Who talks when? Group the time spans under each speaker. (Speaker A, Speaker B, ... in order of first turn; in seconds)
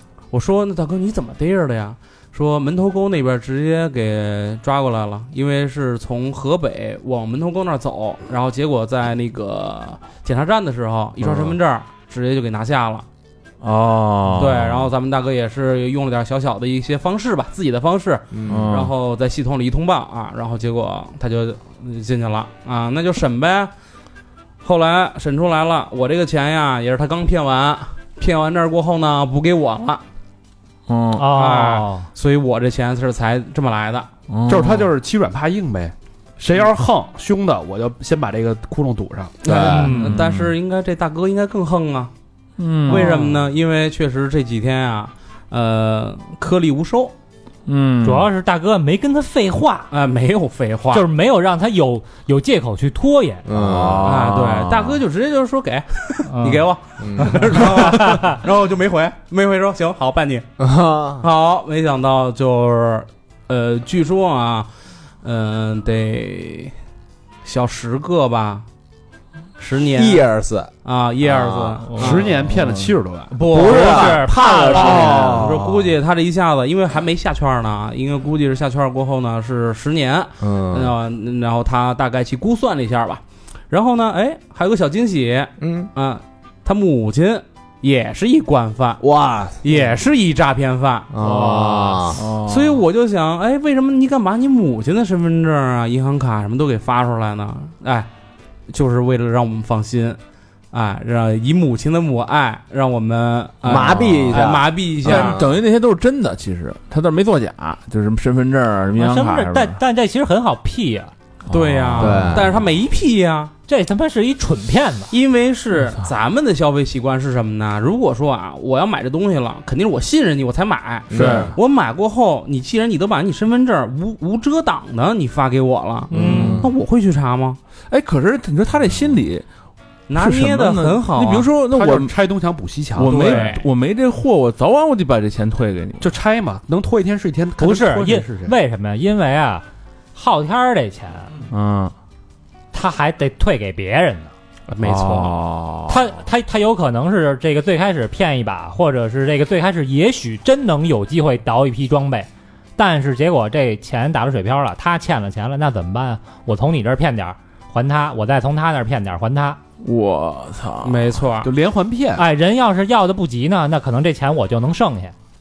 Speaker A: 0.3-13.1, 14.3-23.7, 24.6-30.0, 31.3-34.1, 39.4-42.1, 42.8-47.1, 49.9-51.0, 54.0-60.5, 61.2-64.7, 65.2-66.7, 67.4-68.6, 69.6-70.3, 70.8-72.3, 73.4-89.0, 89.6-91.1, 92.3-98.1, 98.7-100.2, 100.7-105.5, 111.5-113.5, 115.1-127.6, 130.1-131.5, 133.0-133.7, 144.8-145.3, 160.8-161.5
Speaker B: 13.6-14.9, 18.5-18.9, 30.9-31.3, 34.3-34.9, 39.9-40.5, 42.6-43.4, 47.7-48.3, 53.5-55.0, 72.5-72.9, 91.2-92.8, 103.7-104.0, 105.0-109.8, 111.5-112.5, 121.1-121.5, 126.3-126.7, 127.9-129.4, 130.2-132.1, 132.9-136.1, 141.5-141.9, 144.8-146.1, 159.8-161.1
Speaker C: 18.3-18.9, 39.4-39.9, 53.5-54.2, 57.0-57.9, 60.6-61.2, 69.8-70.7, 71.2-71.8, 73.4-75.8, 80.4-80.9, 85.6-85.9, 89.0-90.0, 91.1-92.2, 103.6-105.3, 112.0-112.5, 121.1-121.5, 126.1-126.7
Speaker D: 31.1-32.1, 39.6-40.2, 48.0-49.9, 50.9-53.5, 56.2-58.4, 73.5-75.4, 109.0-111.1, 113.7-115.1, 126.1-126.6, 137.6-141.3, 142.7-144.3, 145.9-159.6, 162.2-165.1
Speaker E: 34.5-39.5, 71.9-73.9, 74.7-75.4, 131.7-133.5, 136.0-138.6, 161.4-162.2